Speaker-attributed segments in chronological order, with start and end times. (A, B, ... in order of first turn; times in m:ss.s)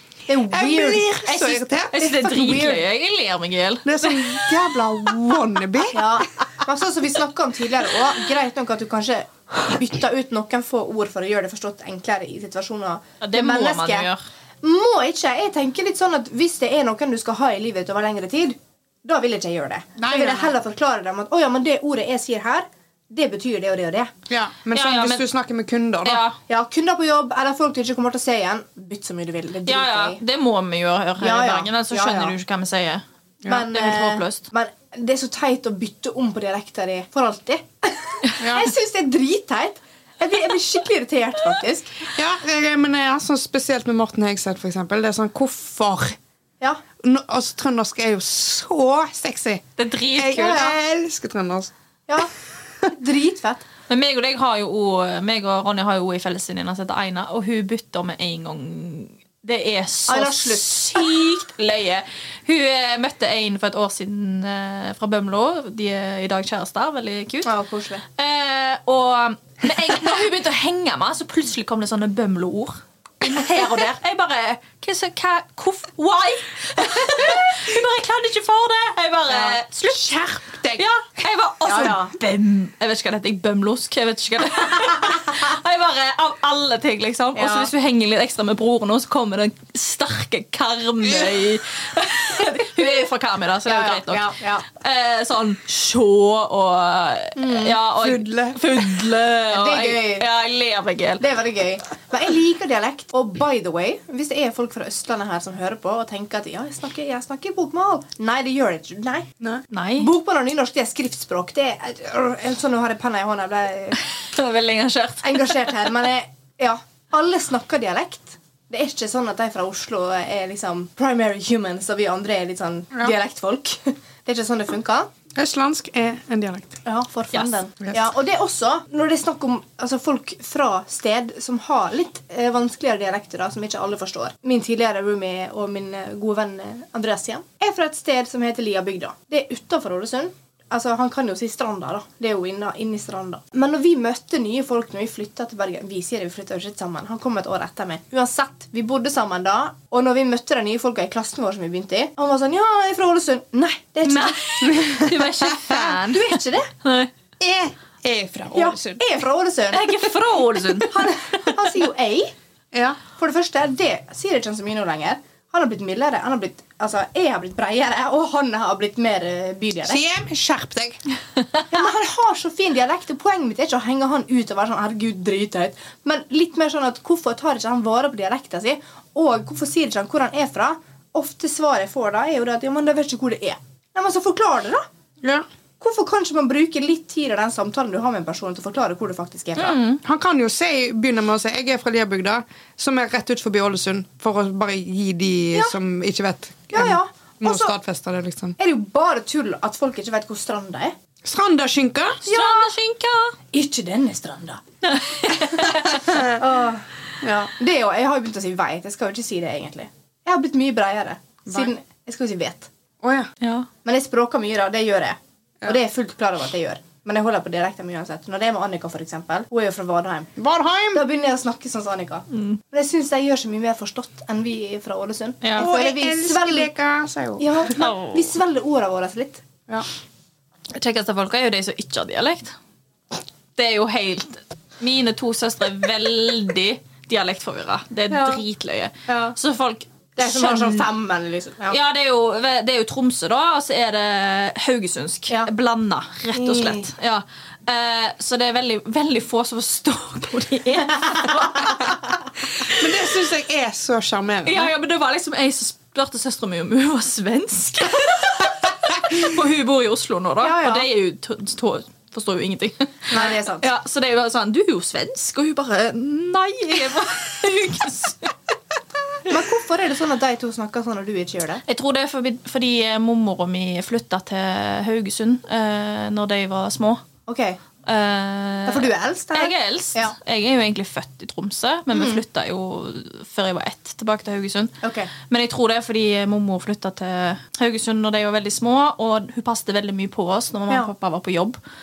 0:00.3-0:01.3 A
0:00.5-0:02.1 B
0:01.3-0:04.7 C
0:01.9-0:02.8 A
0:03.8-0:06.2 B
0:05.9-0:14.1 A
0:13.2-0:14.2 C
0:14.6-0:24.1 A
0:20.0-0:20.5 B
0:24.3-0:26.2 B
0:24.7-0:25.2 C
0:26.0-0:26.4 C
0:26.5-0:30.2 A
0:29.6-0:33.0 C
0:31.2-0:32.3 A
0:33.4-0:41.9 A
0:33.6-0:34.4 C
0:38.4-0:38.7 B
0:42.1-0:46.2 B
0:47.0-0:51.7 B
0:49.8-0:50.6 C
0:50.3-0:50.8 A
0:52.8-0:53.6 A
0:53.9-1:07.5 C
1:00.1-1:01.1 A
1:07.4-1:08.0 A
1:08.2-1:20.2 C
1:19.3-1:19.6 A
1:19.8-1:20.8 B
1:20.7-1:41.2 C
1:21.6-1:22.1 A
1:27.3-1:27.7 A
1:33.6-1:34.6 A
1:37.4-1:37.7 A
1:37.9-1:38.7 B
1:39.5-1:40.3 A
1:41.2-1:49.3 A
1:49.7-1:50.1 C
1:50.0-1:54.0 A
1:54.0-1:55.8 C
1:55.2-2:05.1 A
2:05.3-2:06.8 B
2:06.8-2:35.0 A
2:34.0-2:37.1 C
2:34.6-2:35.8 B
2:35.7-2:36.7 A
2:37.4-2:39.0 B
2:38.5-2:40.1 A
2:39.7-2:41.1 C
2:40.7-2:42.3 A
2:42.7-2:43.0 B
2:43.2-2:50.0 A
2:49.8-2:51.0 B
2:51.7-3:04.9 A
3:05.8-3:09.8 A
3:09.6-3:10.0 C
3:10.0-3:18.6 B
3:16.7-3:17.7 A
3:18.6-3:20.9 A
3:21.2-3:22.2 B
3:22.2-3:23.4 C
3:22.2-3:22.7 A
3:23.5-3:24.6 A
3:24.8-3:26.0 C
3:25.3-3:26.8 A
3:26.0-3:26.4 B
3:27.2-3:27.5 B
3:27.4-3:32.7 A
3:33.0-3:33.3 B
3:33.4-3:33.7 C
3:33.8-3:40.3 A
3:40.4-3:41.0 B
3:40.9-3:46.7 A
3:42.3-3:42.6 C
3:45.4-3:45.7 C
3:45.6-3:47.6 B
3:47.4-3:49.4 A
3:47.8-3:48.2 C
3:50.7-3:52.5 C
3:53.6-4:00.9 C
3:58.1-3:58.4 A
3:59.1-3:59.4 A
4:00.2-4:01.8 A
4:01.7-4:12.0 C
4:06.3-4:06.9 A
4:11.1-4:11.9 A
4:12.6-4:14.7 B
4:14.4-4:28.3 C
4:20.4-4:20.9 A
4:23.1-4:23.6 A
4:29.2-4:31.6 A
4:31.6-4:37.0 C
4:37.3-4:37.6 A
4:37.8-4:51.6 C
4:38.6-4:40.1 A
4:41.9-4:42.2 A
4:44.8-4:45.1 A